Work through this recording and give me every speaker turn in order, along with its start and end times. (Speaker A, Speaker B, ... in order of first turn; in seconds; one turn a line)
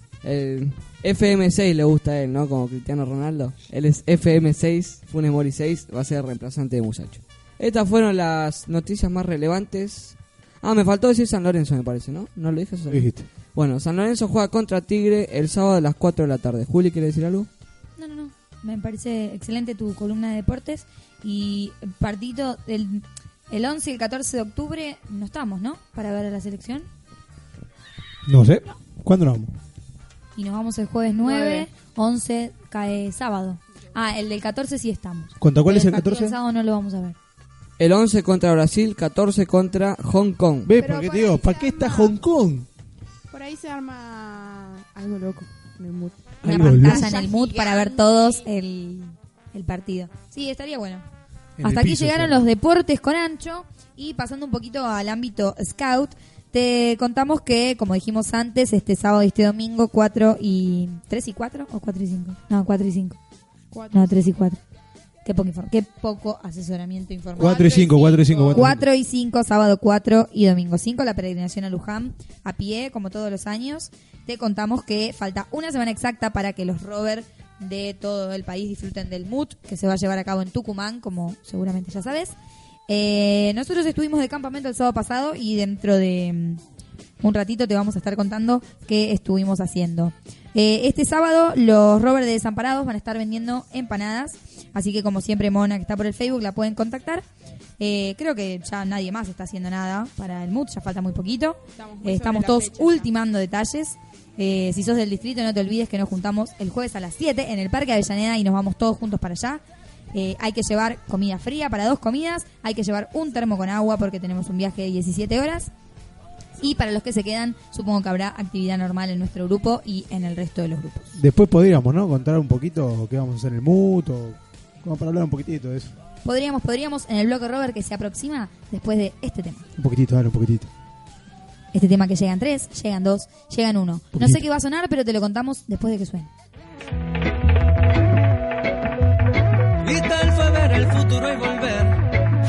Speaker A: 0.2-17.5
Speaker B: 12.9-13.2
Speaker C: 18.0-26.9
Speaker B: 28.3-29.5
Speaker C: 30.4-37.1
Speaker D: 31.2-31.7
Speaker B: 35.4-36.4
Speaker A: 37.8-40.7
Speaker B: 40.6-42.7
Speaker D: 40.8-42.2
Speaker D: 43.3-48.5
Speaker B: 46.4-47.2
Speaker C: 46.4-51.0
Speaker B: 51.6-52.5
Speaker C: 51.6-63.2
Speaker D: 63.7-64.3
Speaker C: 63.9-64.6
Speaker C: 65.2-67.7
Speaker D: 67.3-68.8
Speaker B: 67.4-68.8
Speaker C: 68.5-82.3
Speaker C: 82.9-86.6
Speaker C: 87.2-97.2
Speaker C: 97.8-109.6
Speaker D: 101.8-103.1
Speaker C: 110.1-115.7
Speaker C: 116.6-121.0
Speaker B: 121.1-125.9
Speaker C: 126.2-129.7
Speaker B: 129.8-130.7
Speaker C: 131.7-136.3
Speaker B: 134.1-134.4
Speaker E: 139.8-142.0